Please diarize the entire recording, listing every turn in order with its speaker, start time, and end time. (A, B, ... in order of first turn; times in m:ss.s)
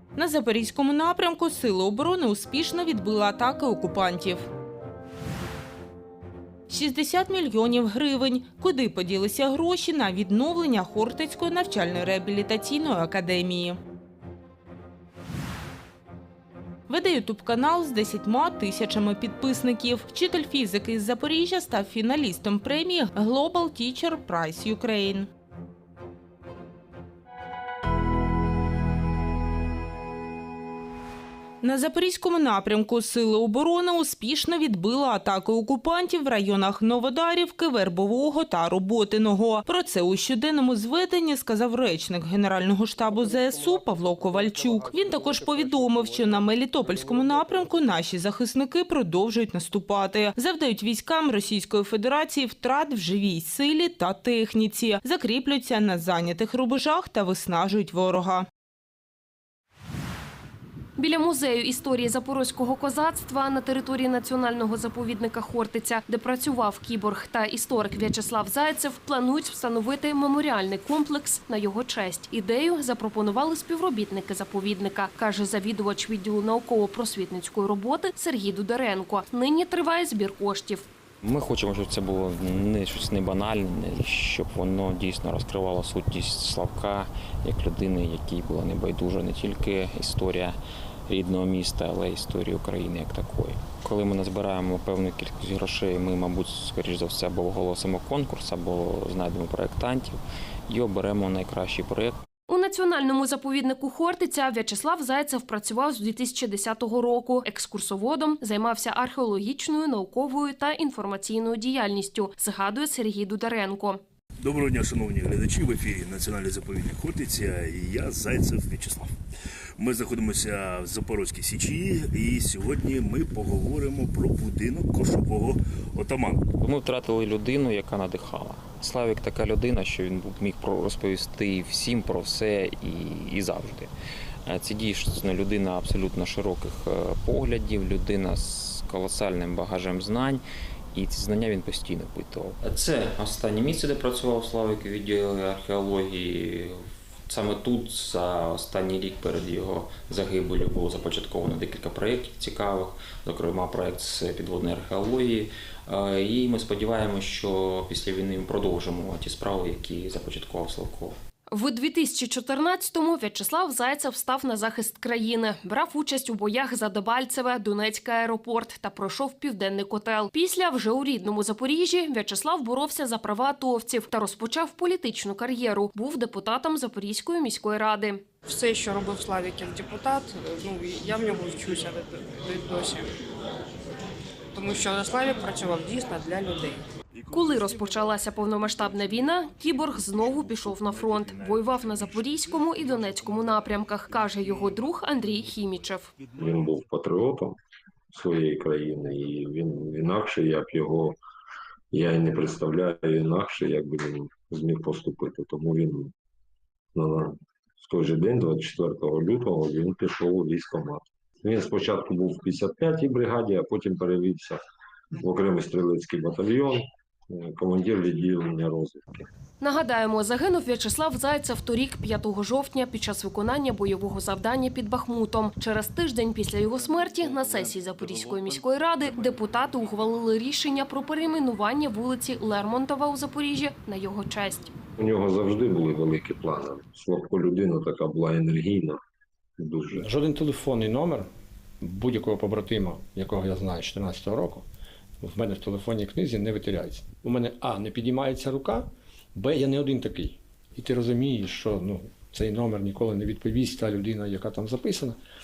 0:00.2-0:04.5 A
0:06.7-0:13.8 A
0:16.9-0:25.3 A
0:31.6-0:58.5 A
1:01.0-1:20.8 B
1:21.2-1:30.6 C
1:31.1-1:42.2 C
1:42.5-1:54.0 B
1:54.4-1:59.1 D
1:59.8-2:06.5 D
2:06.6-2:13.9 C
2:14.5-2:20.4 C
2:20.9-2:41.2 C
2:41.5-2:58.3 B
2:58.4-3:03.1 E
3:04.6-3:06.8 E
3:07.3-3:16.1 B
3:16.4-3:17.6 F
3:18.1-3:21.2 F
3:21.9-3:26.1 F
3:27.0-3:34.6 F
3:35.2-3:39.2 F
3:39.6-3:54.7 B
3:55.0-3:59.0 F
3:59.6-4:00.1 F
4:00.0-4:01.3 G
4:01.8-4:04.6 G
4:05.2-4:15.2 G